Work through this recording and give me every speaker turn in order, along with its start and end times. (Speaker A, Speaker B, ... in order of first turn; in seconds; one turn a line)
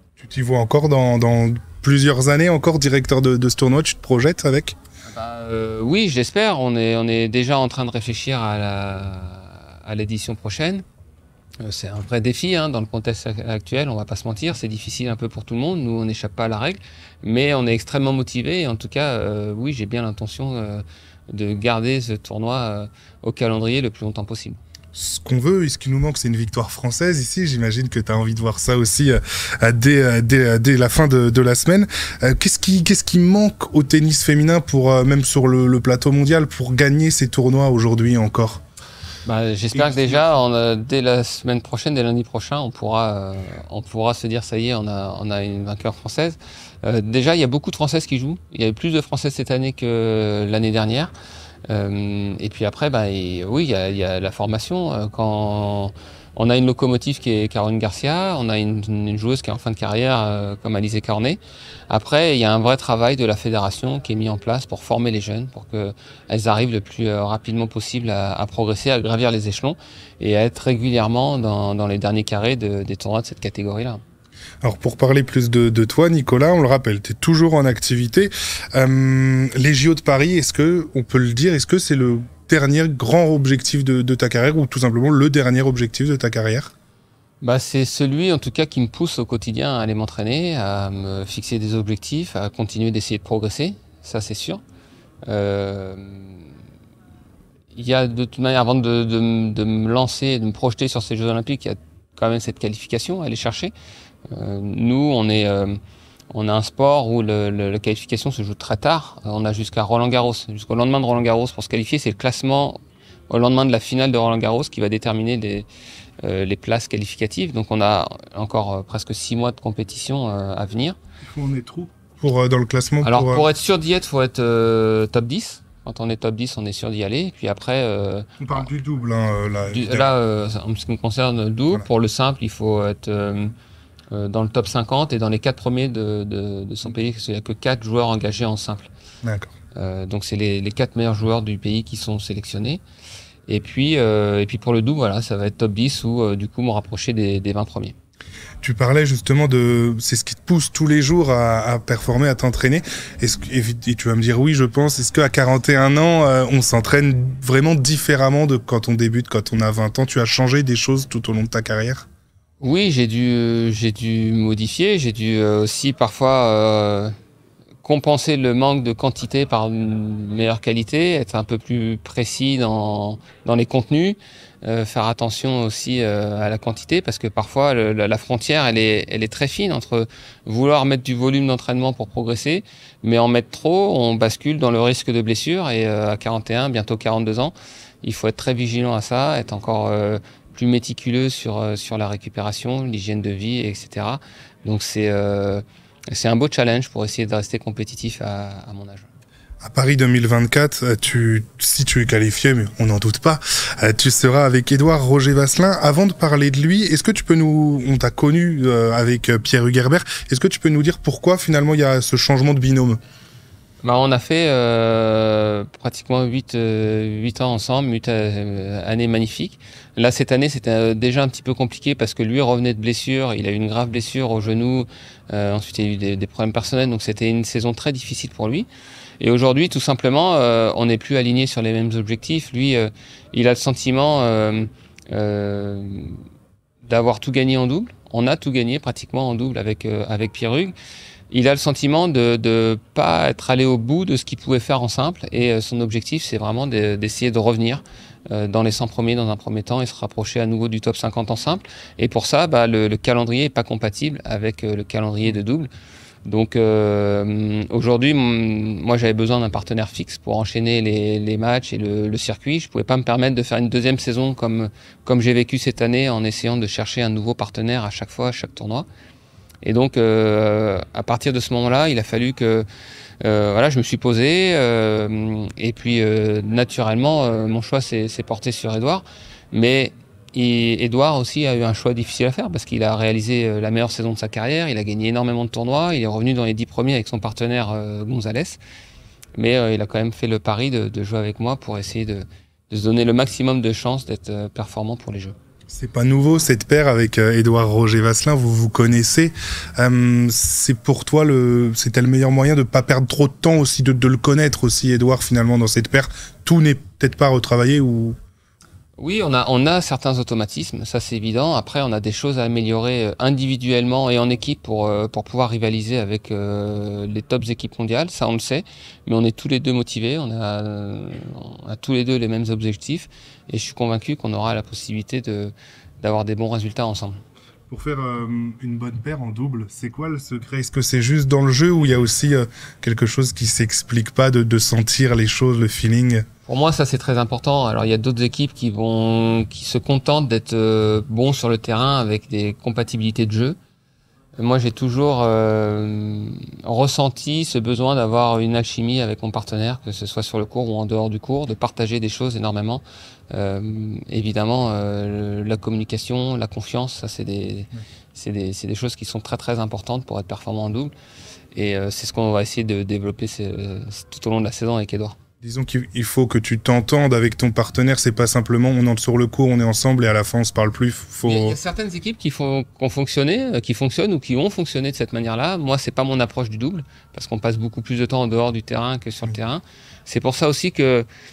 Speaker A: 0.2-4.8
Speaker B: 5.0-10.8
Speaker B: 11.6-24.6
Speaker A: 24.9-38.6
Speaker B: 39.2-51.1
Speaker A: 39.7-40.2
Speaker B: 51.7-74.0
Speaker A: 74.6-86.7
Speaker B: 87.4-94.6
Speaker B: 95.2-96.4
Speaker B: 97.7-103.7
Speaker B: 104.3-105.8
Speaker B: 106.3-112.8
Speaker B: 113.3-115.7
Speaker B: 116.2-121.0
Speaker A: 121.2-123.5
Speaker B: 123.0-128.7
Speaker A: 128.4-130.1
Speaker B: 129.7-133.5
Speaker B: 134.1-138.9
Speaker A: 139.2-139.5
Speaker B: 139.7-142.8
Speaker B: 143.5-147.9
Speaker A: 148.6-162.1
Speaker B: 162.6-167.1
Speaker B: 167.8-199.1
Speaker A: 199.6-213.0
Speaker B: 213.8-228.7
Speaker B: 229.2-236.2
Speaker B: 236.8-240.7
Speaker B: 241.3-255.7
Speaker B: 256.2-268.9
Speaker B: 269.6-272.6
Speaker B: 273.2-288.6
Speaker B: 289.4-295.4
Speaker A: 295.7-308.1
Speaker B: 309.0-327.2
Speaker A: 327.7-336.2
Speaker B: 336.4-343.6
Speaker B: 344.4-360.9
Speaker B: 361.5-365.1
Speaker A: 365.4-371.6
Speaker B: 371.2-381.1